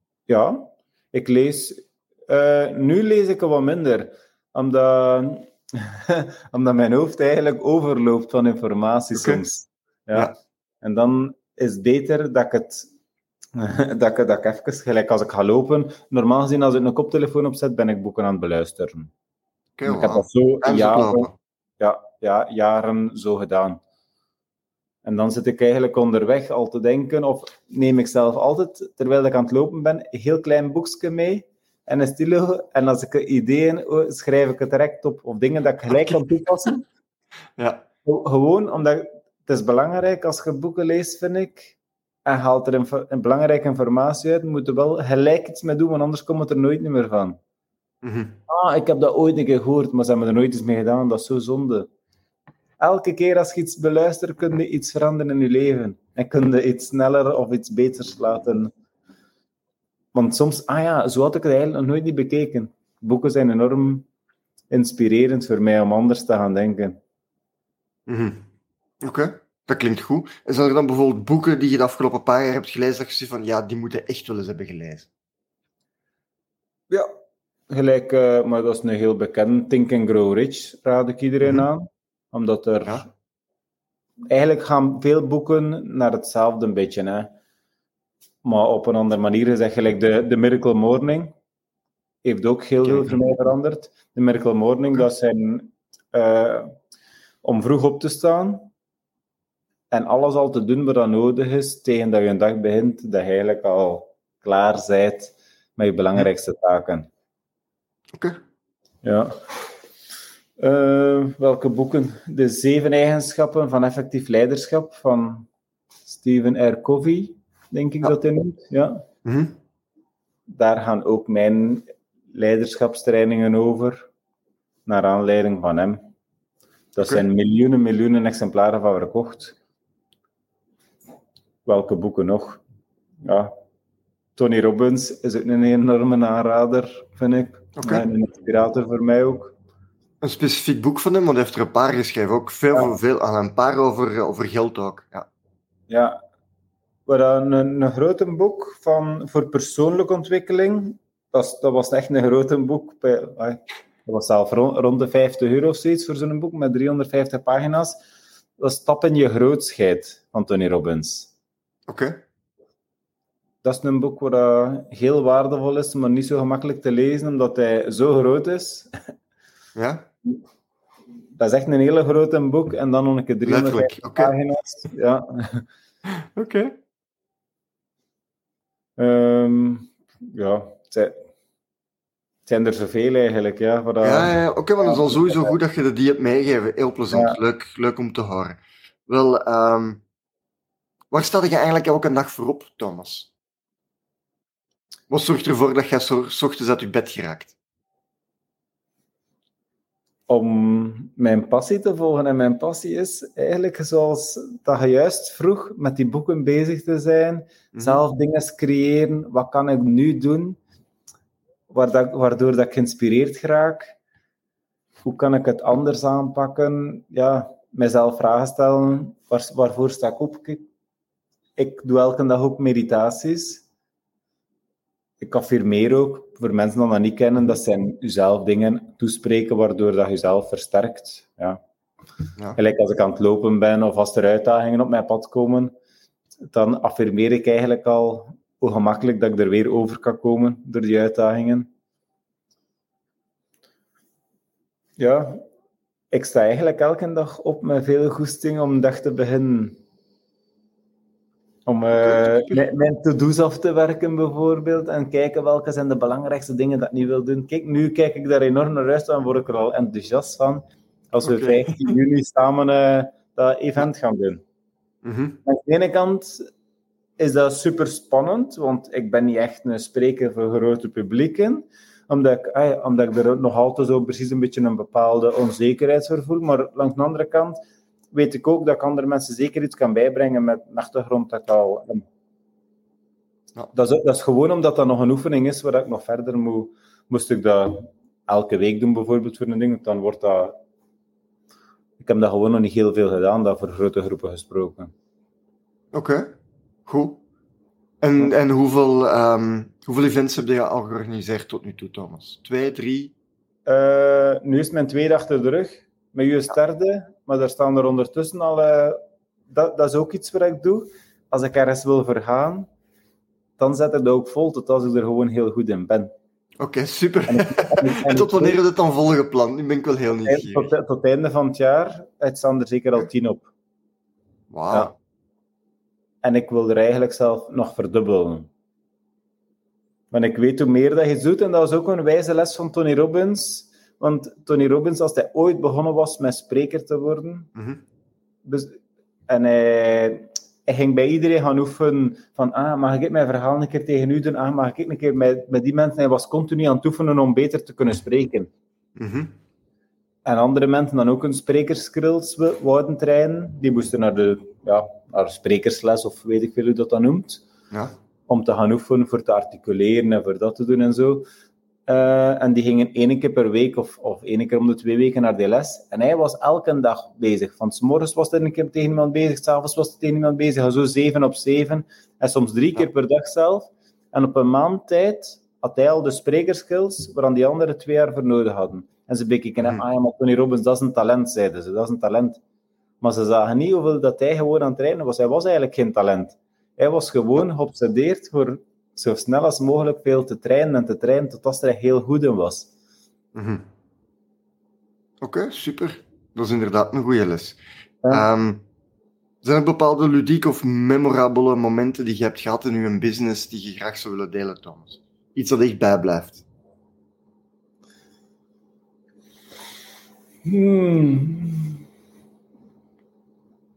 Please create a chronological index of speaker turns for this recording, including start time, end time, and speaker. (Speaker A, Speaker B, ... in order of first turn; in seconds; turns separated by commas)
Speaker A: 0.3-12.9, Speaker B: 9.1-9.4, Speaker A: 13.5-19.1, Speaker B: 19.8-21.3, Speaker A: 19.8-21.3, Speaker A: 21.8-23.8, Speaker A: 25.0-36.8, Speaker B: 35.9-36.2, Speaker B: 37.6-37.8, Speaker A: 38.0-41.7, Speaker A: 42.2-47.4, Speaker B: 48.0-48.4, Speaker A: 48.5-51.9, Speaker A: 52.8-58.7, Speaker A: 60.1-64.0, Speaker A: 64.7-67.0, Speaker B: 68.1-68.4, Speaker B: 69.0-75.1, Speaker A: 77.7-83.1, Speaker A: 84.3-87.3, Speaker A: 88.4-91.3, Speaker A: 92.2-96.7, Speaker B: 92.8-93.2, Speaker A: 97.4-98.7, Speaker A: 99.9-107.1, Speaker A: 109.0-109.3, Speaker A: 110.6-115.5, Speaker A: 116.1-119.0, Speaker B: 119.2-119.6, Speaker A: 120.5-124.1, Speaker A: 124.8-126.0, Speaker A: 126.9-129.6, Speaker B: 127.0-127.2, Speaker A: 131.6-132.6, Speaker A: 133.2-133.5, Speaker A: 134.3-139.5, Speaker B: 137.8-138.1, Speaker B: 140.2-145.3, Speaker A: 145.9-146.2, Speaker A: 147.1-158.0, Speaker A: 158.6-161.3, Speaker B: 161.9-162.2, Speaker A: 163.6-168.9, Speaker B: 169.8-170.1, Speaker A: 171.3-175.7, Speaker B: 173.4-174.3, Speaker B: 176.3-176.7, Speaker A: 179.0-181.2, Speaker A: 182.4-185.5, Speaker B: 184.0-190.0, Speaker B: 191.1-193.3, Speaker B: 195.1-197.5, Speaker A: 200.3-210.6, Speaker B: 207.7-208.0, Speaker A: 211.7-213.9, Speaker A: 215.0-220.6, Speaker A: 221.6-223.6, Speaker A: 225.2-231.6, Speaker A: 232.6-235.7, Speaker A: 236.5-241.7, Speaker A: 245.0-245.4, Speaker A: 246.1-249.8, Speaker A: 251.7-264.4, Speaker B: 252.0-252.6, Speaker B: 261.2-261.9, Speaker B: 265.0-265.4, Speaker A: 265.4-266.4, Speaker A: 267.2-277.6, Speaker A: 278.1-282.0, Speaker A: 283.7-290.5, Speaker A: 292.0-294.9, Speaker B: 295.9-296.3, Speaker B: 296.9-297.2, Speaker B: 298.0-303.1, Speaker A: 303.6-312.7, Speaker A: 313.6-316.1, Speaker B: 316.6-320.7, Speaker A: 317.3-318.6, Speaker A: 320.3-323.5, Speaker B: 324.5-324.9, Speaker A: 326.2-328.5, Speaker A: 330.1-337.5, Speaker B: 337.6-337.8, Speaker A: 338.4-348.5, Speaker B: 348.9-349.3, Speaker A: 350.2-357.4, Speaker A: 358.3-361.3, Speaker A: 361.9-382.4, Speaker A: 383.0-392.7, Speaker B: 393.3-393.6, Speaker B: 395.2-398.6, Speaker B: 399.4-406.4, Speaker A: 410.4-411.8